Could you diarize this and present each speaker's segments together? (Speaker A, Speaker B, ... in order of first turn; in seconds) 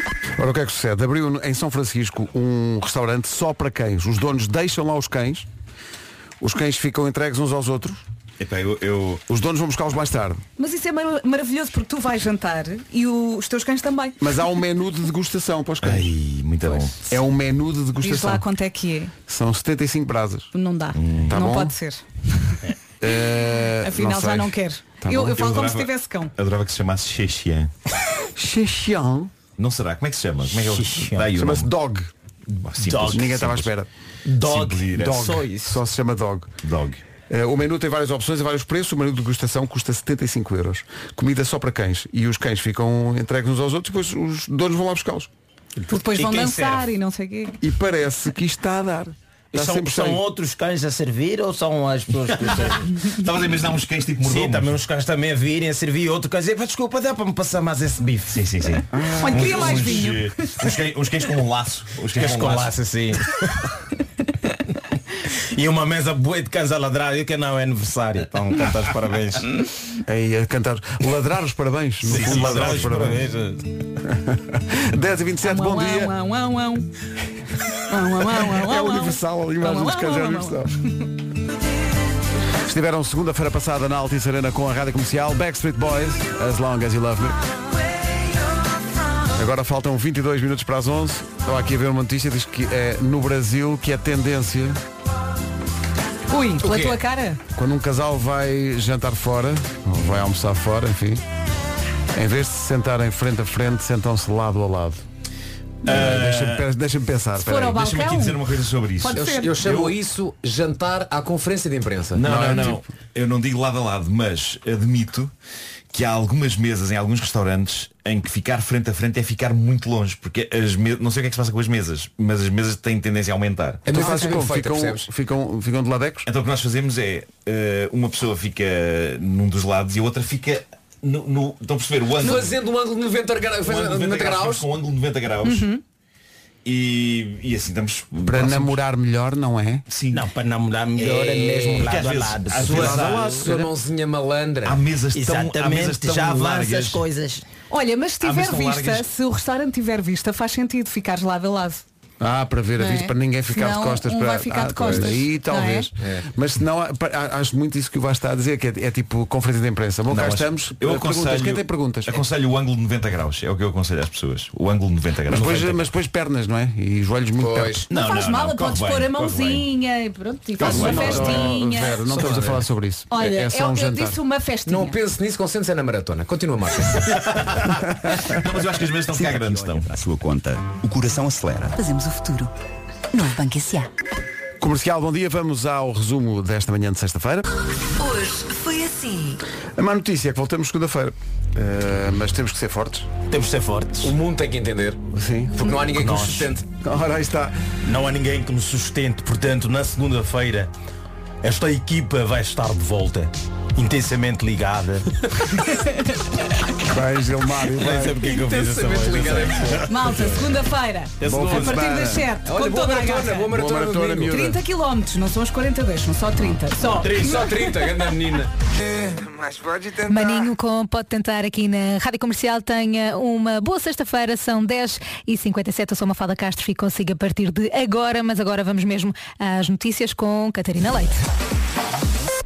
Speaker A: 0.4-5.5, 6.4-8.1, 9.3-10.4, 14.2-16.1, 17.1-18.5, 19.3-20.5, 21.3-21.7, 23.0-25.5, 28.4-29.3, 31.3-32.1, 33.1-33.9, 34.9-36.5, 37.3-45.3, 47.6-50.2, 70.1-73.2, 74.0-76.1, 78.3-80.8, 82.7-87.4, 89.3-94.8, 97.5-101.2, 102.1-105.0, 105.8-108.0, 112.2-112.9, 123.9-126.3, 138.2-139.8, 142.7-143.7, 152.2-162.2, 165.3-167.9, 170.6-174.2, 184.6-187.5, 189.8-193.1, 195.1-195.7, 196.8-197.6, 206.8-208.2, 211.2-212.3, 213.5-214.6
Speaker B: 8.4-9.2, 15.8-17.0, 21.0-21.4, 25.3-27.7, 29.6-31.7, 32.5-33.7, 34.4-35.3, 36.6-37.0, 53.0-54.8, 58.3-62.8, 105.8-106.7, 107.7-109.9, 112.2-115.3, 115.9-123.8, 126.3-132.6, 133.6-135.7, 136.7-138.8, 139.9-140.3, 141.8-143.4, 144.7-147.0, 148.2-149.0, 160.1-165.9, 167.9-169.6, 177.3-179.9
Speaker C: 10.6-14.2, 18.0-19.1, 20.5-22.6, 23.8-26.3, 45.9-47.6, 59.2-60.5, 75.4-76.9, 77.9-81.1, 96.3-97.4, 107.4-108.4, 109.0-109.7, 124.0-124.3, 135.4-135.8, 147.7-151.8, 152.8-155.9, 167.9-172.2, 173.1-175.0, 209.9-213.5, 214.2-217.5
Speaker D: 30.5-31.3, 32.9-33.2, 34.2-35.8, 45.9-46.9, 49.5-52.9, 54.2-59.9, 62.1-63.5, 65.5-69.5, 72.0-73.7, 140.1-143.0, 145.1-147.4, 193.3-194.1, 195.9-196.5, 197.8-200.7, 201.4-205.1, 207.8-210.6, 211.2-211.9, 217.0-217.4
Speaker E: 96.6-97.0, 109.1-112.6, 123.8-125.1, 132.2-134.7, 141.0-141.9, 142.6-144.8, 154.8-155.1, 156.0-156.3, 167.4-167.9, 170.6-172.7, 174.7-177.3, 194.0-195.0, 195.6-196.7, 208.2-209.9, 212.4-214.4, 217.0-218.5
Speaker F: 179.3-181.7
Speaker G: 181.7-182.5, 183.1-183.9, 188.0-189.4, 220.0-231.2